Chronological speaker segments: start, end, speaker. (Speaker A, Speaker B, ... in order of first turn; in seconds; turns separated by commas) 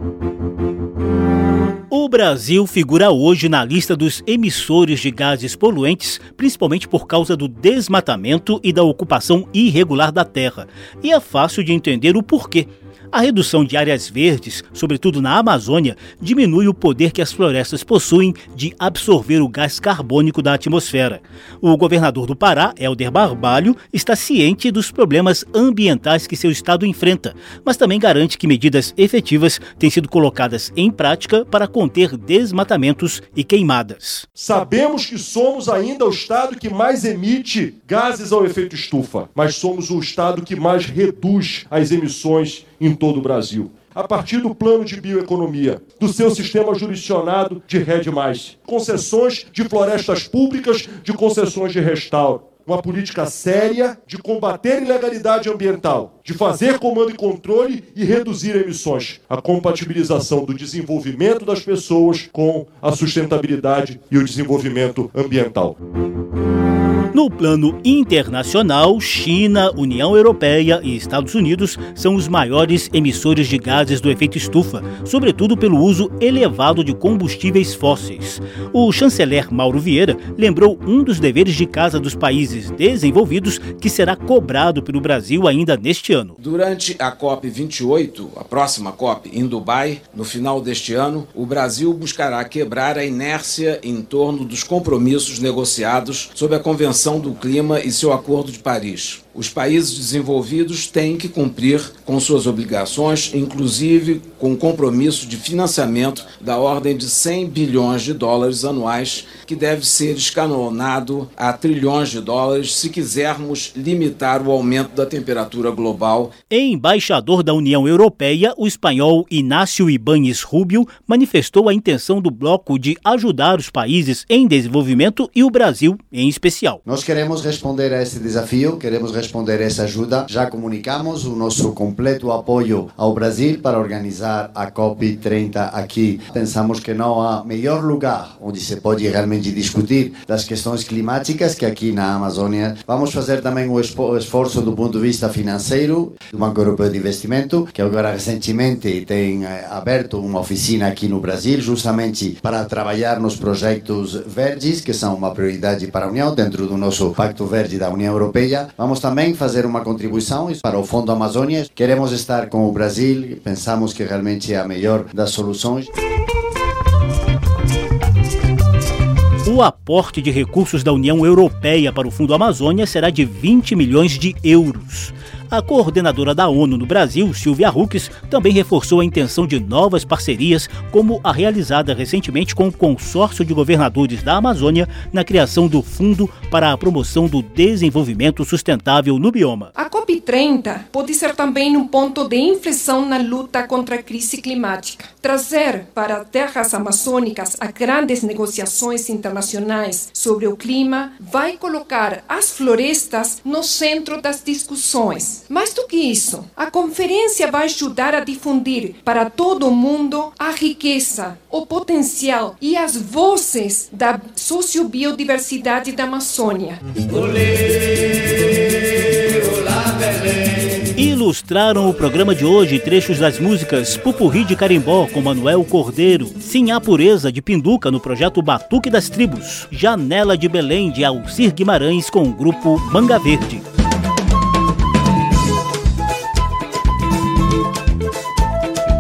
Speaker A: 1.9-34.3, Speaker B: 34.4-65.8, Speaker A: 67.1-86.3, Speaker C: 86.4-116.3, Speaker A: 116.5-126.8, Speaker D: 126.8-165.9, Speaker A: 169.4-189.7, Speaker E: 189.8-216.8, Speaker A: 220.9-233.6